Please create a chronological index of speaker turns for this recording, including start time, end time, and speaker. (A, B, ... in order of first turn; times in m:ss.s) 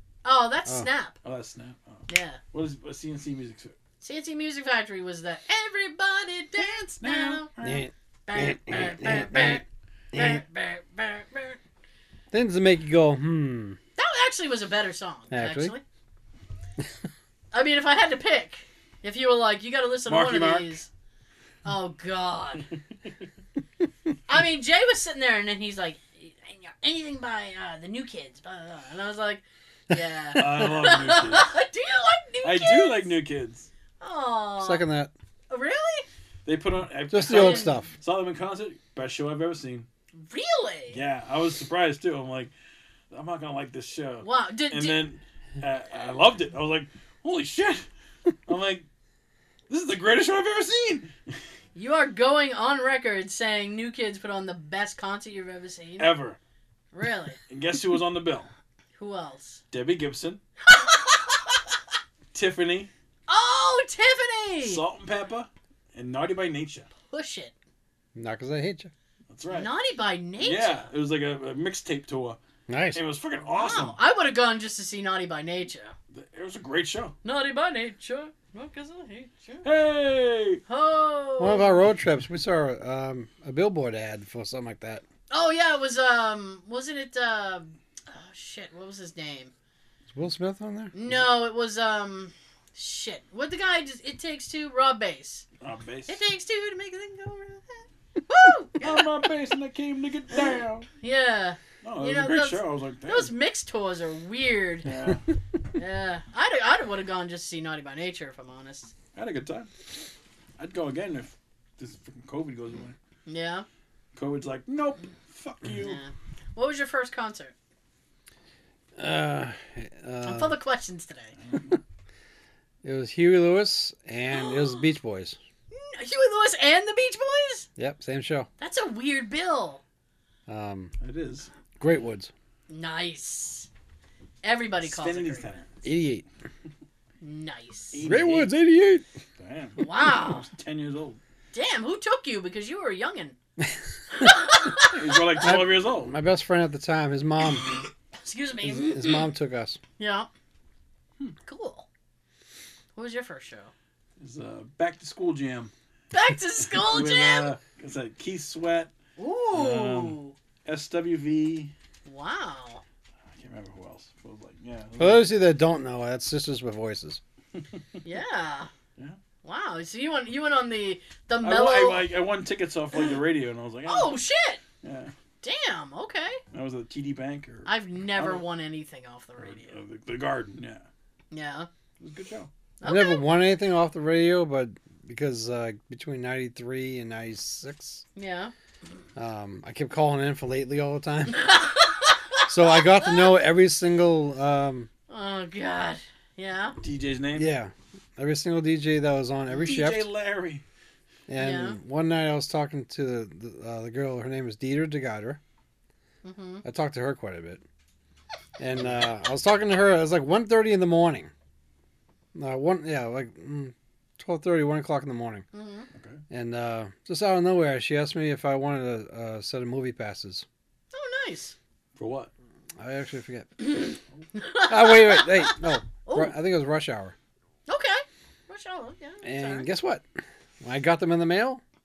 0:00.2-0:01.2 A
0:01.2-0:03.8 B
0:02.1-0:02.4 A
0:04.0-0:07.5 A
0:06.6-0:07.8 B
0:07.6-0:10.4 C
0:08.3-0:09.6 A
0:10.1-0:11.6 A
0:12.3-0:13.8 C
0:14.0-0:15.8 A
0:15.3-0:15.7 C
0:17.5-0:20.9 A
0:20.1-0:20.8 B
0:21.6-0:22.7 A
0:24.3-0:33.1 A
0:30.4-0:31.5 B
0:32.4-0:33.7 B
0:34.0-0:34.8 A
0:34.6-0:35.1 C
0:35.5-0:36.1 A
0:36.4-0:39.9 B
0:37.1-0:37.9 C
0:37.3-0:37.8 A
0:40.2-0:41.0 A
0:40.9-0:42.5 B
0:43.1-0:47.9 B
0:44.2-0:45.0 A
0:48.5-0:48.9 B
0:49.7-0:51.4 B
0:51.8-0:56.1 A
0:56.0-0:56.4 B
0:56.9-0:57.4 A
0:57.5-0:58.5 B
0:59.0-0:59.6 A
0:59.7-1:00.4 B
1:00.6-1:01.6 A
1:02.3-1:02.9 B
1:03.3-1:04.8 A
1:04.6-1:06.9 B
1:07.1-1:07.5 A
1:08.2-1:08.9 C
1:09.3-1:09.7 B
1:09.5-1:10.8 A
1:10.4-1:12.4 B
1:12.7-1:13.0 C
1:12.9-1:14.0 B
1:13.6-1:15.9 A
1:16.1-1:17.2 B
1:17.2-1:19.6 A
1:19.6-1:20.6 B
1:20.7-1:21.8 A
1:21.4-1:25.0 C
1:25.3-1:29.5 A
1:30.1-1:31.0 C
1:30.9-1:35.5 A
1:35.6-1:36.2 B
1:36.1-1:39.0 A
1:38.8-1:40.9 B
1:41.0-1:44.9 A
1:41.8-1:43.3 B
1:44.8-1:45.2 B
1:45.8-1:48.9 A
1:49.2-1:49.7 B
1:50.6-1:53.0 B
1:53.3-1:53.7 A
1:54.2-1:56.0 B
1:55.8-1:57.5 A
1:59.0-2:00.6 C
2:00.2-2:01.4 A
2:01.4-2:01.8 B
2:02.8-2:05.4 C
2:04.3-2:04.8 A
2:05.7-2:07.7 A
2:07.8-2:08.5 C
2:08.6-2:09.8 A
2:10.5-2:10.9 C
2:11.0-2:11.5 B
2:11.8-2:12.3 C
2:12.7-2:13.7 A
2:14.4-2:15.6 A
2:14.8-2:15.7 B
2:15.8-2:16.2 C
2:17.2-2:18.0 A
2:17.9-2:18.5 B
2:18.0-2:19.1 C
2:19.4-2:21.2 B
2:19.8-2:20.5 A
2:21.5-2:23.4 A
2:24.1-2:25.2 A
2:24.8-2:26.1 B
2:25.4-2:27.7 C
2:27.5-2:29.3 A
2:28.6-2:29.8 C
2:30.0-2:30.3 A
2:31.5-2:31.9 A
2:33.0-2:33.7 A
2:34.2-2:35.7 B
2:36.1-2:37.5 A
2:36.7-2:38.9 B
2:39.2-2:40.4 A
2:39.5-2:41.7 B
2:42.1-2:42.8 A
2:43.3-2:45.2 B
2:45.0-2:47.2 C
2:47.6-2:47.8 B
2:48.0-2:48.7 A
2:49.4-2:52.1 A
2:51.4-2:54.2 B
2:53.9-2:54.6 A
2:54.8-2:55.1 B
2:55.4-2:56.4 A
2:56.5-2:58.4 B
2:57.7-2:59.8 A
2:59.4-3:00.9 B
3:01.3-3:01.7 A
3:02.0-3:02.5 B
3:02.8-3:03.2 A
3:02.8-3:08.0 C
3:08.2-3:08.5 A
3:09.2-3:11.5 C
3:11.3-3:13.3 A
3:12.5-3:14.9 C
3:15.1-3:16.8 A
3:16.8-3:17.5 B
3:17.4-3:20.1 C
3:19.5-3:20.6 B
3:21.3-3:25.4 C
3:21.4-3:21.8 A
3:26.2-3:26.6 A
3:26.6-3:27.6 C
3:28.6-3:31.3 C
3:32.4-3:35.5 C
3:35.5-3:35.9 A
3:35.9-3:36.2 B
3:36.3-3:40.5 C
3:40.9-3:41.6 A
3:42.0-3:42.3 B
3:42.8-3:43.7 C
3:43.6-3:46.4 A
3:44.7-3:47.2 C
3:47.7-3:49.7 A
3:49.2-3:50.0 C
3:50.6-3:51.6 C